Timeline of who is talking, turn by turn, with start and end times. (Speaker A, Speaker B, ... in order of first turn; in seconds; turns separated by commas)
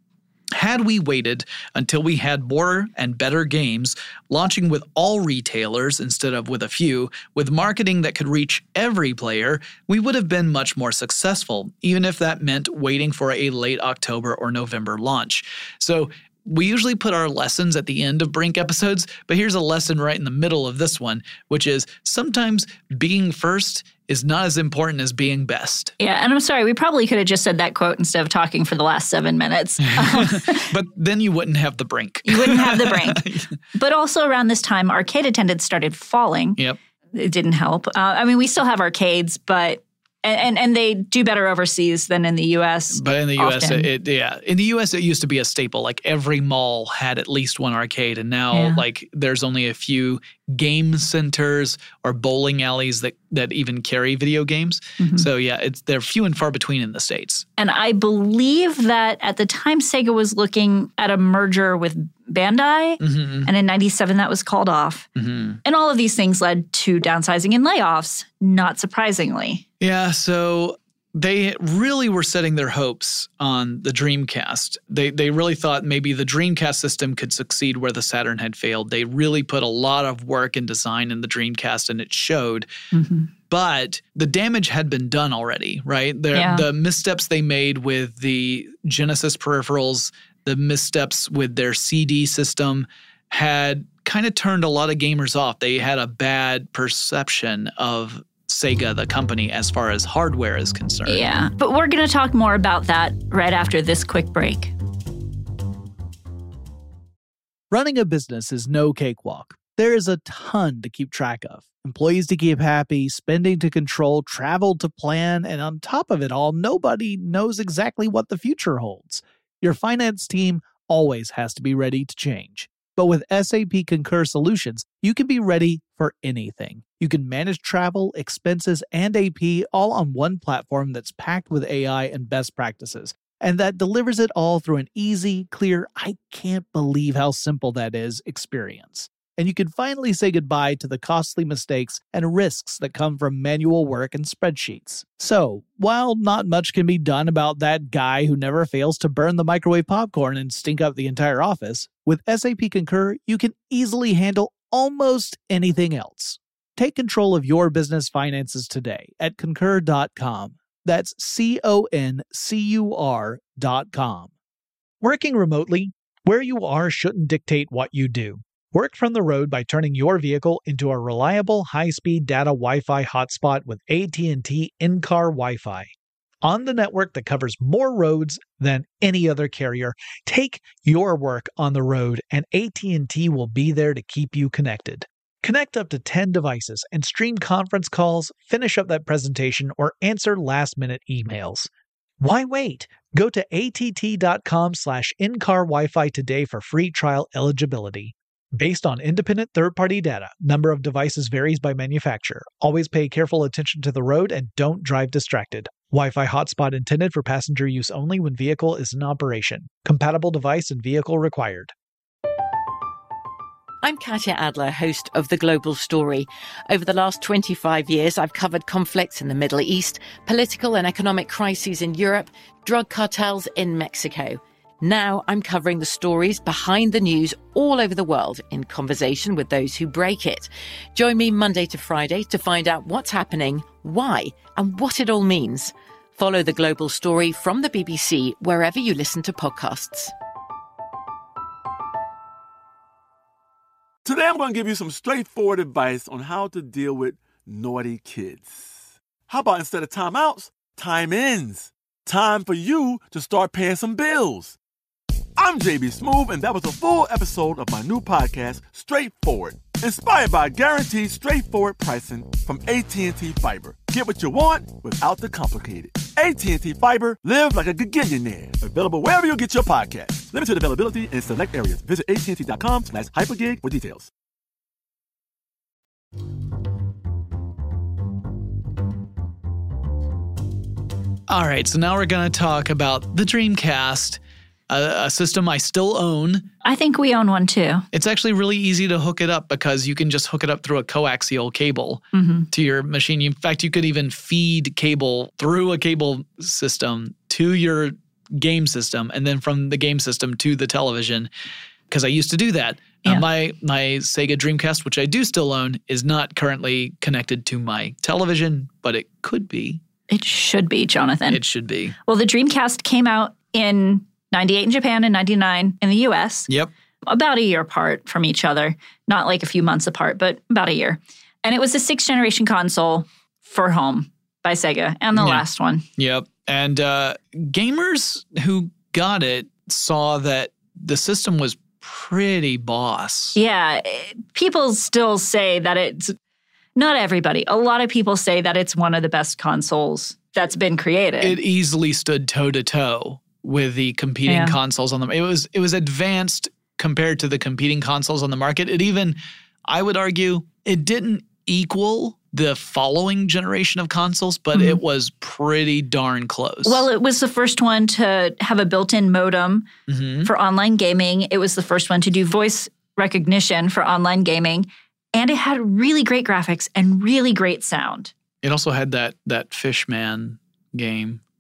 Speaker A: 0.6-25.9, Speaker B: 26.0-30.7, Speaker A: 29.9-33.5, Speaker B: 32.3-33.2, Speaker B: 33.8-36.6, Speaker B: 37.1-43.9, Speaker A: 42.9-57.5, Speaker B: 48.5-48.8, Speaker B: 55.0-55.3, Speaker B: 57.6-65.1, Speaker A: 63.0-63.5, Speaker A: 65.2-65.6, Speaker B: 65.7-69.6, Speaker A: 69.8-82.7, Speaker B: 82.9-83.3, Speaker A: 83.5-101.3, Speaker B: 86.3-86.7, Speaker B: 101.1-104.7, Speaker C: 107.7-164.3, Speaker C: 165.0-175.9, Speaker C: 176.4-191.7, Speaker C: 192.2-211.7, Speaker D: 213.8-240.1, Speaker E: 244.0-254.6, Speaker E: 255.4-274.1, Speaker A: 281.3-286.5, Speaker B: 286.6-287.9, Speaker A: 287.9-301.3, Speaker B: 292.1-292.5, Speaker A: 301.9-309.8, Speaker B: 310.1-311.4, Speaker A: 311.3-312.0, Speaker B: 312.1-316.5, Speaker B: 317.1-325.9, Speaker A: 325.1-325.4, Speaker A: 326.0-333.4, Speaker B: 333.4-336.1, Speaker B: 336.8-341.4, Speaker A: 341.2-356.8, Speaker B: 344.3-344.6, Speaker B: 354.5-354.8, Speaker B: 356.6-359.7, Speaker A: 359.9-360.3, Speaker B: 360.2-368.1, Speaker A: 368.4-371.2